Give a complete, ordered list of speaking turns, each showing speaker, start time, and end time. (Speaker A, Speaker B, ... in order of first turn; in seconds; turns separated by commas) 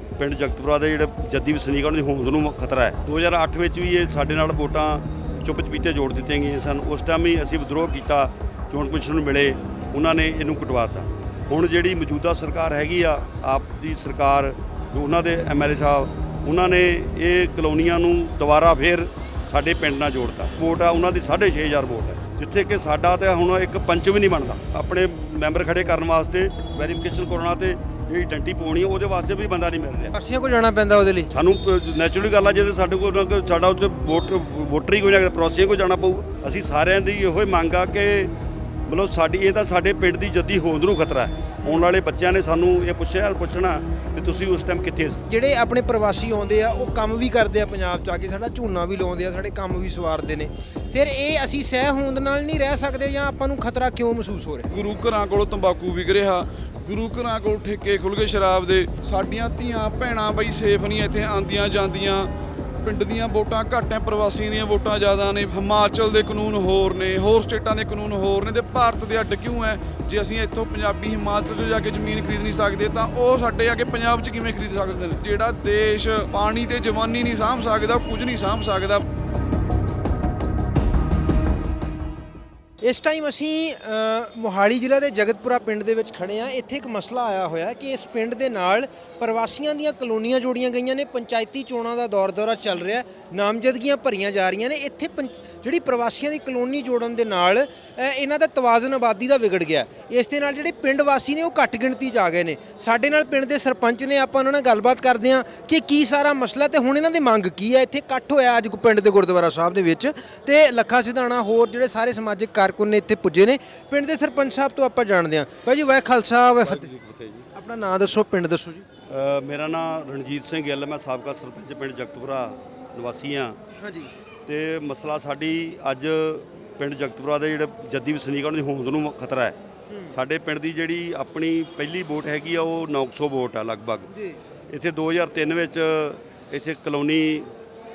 Speaker A: 0.2-30.1, Speaker B: 30.1-31.3, Speaker A: 31.3-38.3, Speaker A: 38.9-45.2, Speaker B: 45.3-54.7, Speaker C: 54.7-62.3, Speaker C: 62.8-79.0, Speaker B: 82.8-116.9, Speaker A: 116.6-117.5, Speaker B: 117.5-118.8, Speaker A: 119.1-123.6, Speaker B: 123.8-124.1, Speaker A: 124.5-129.6, Speaker A: 130.1-134.1, Speaker A: 134.7-137.5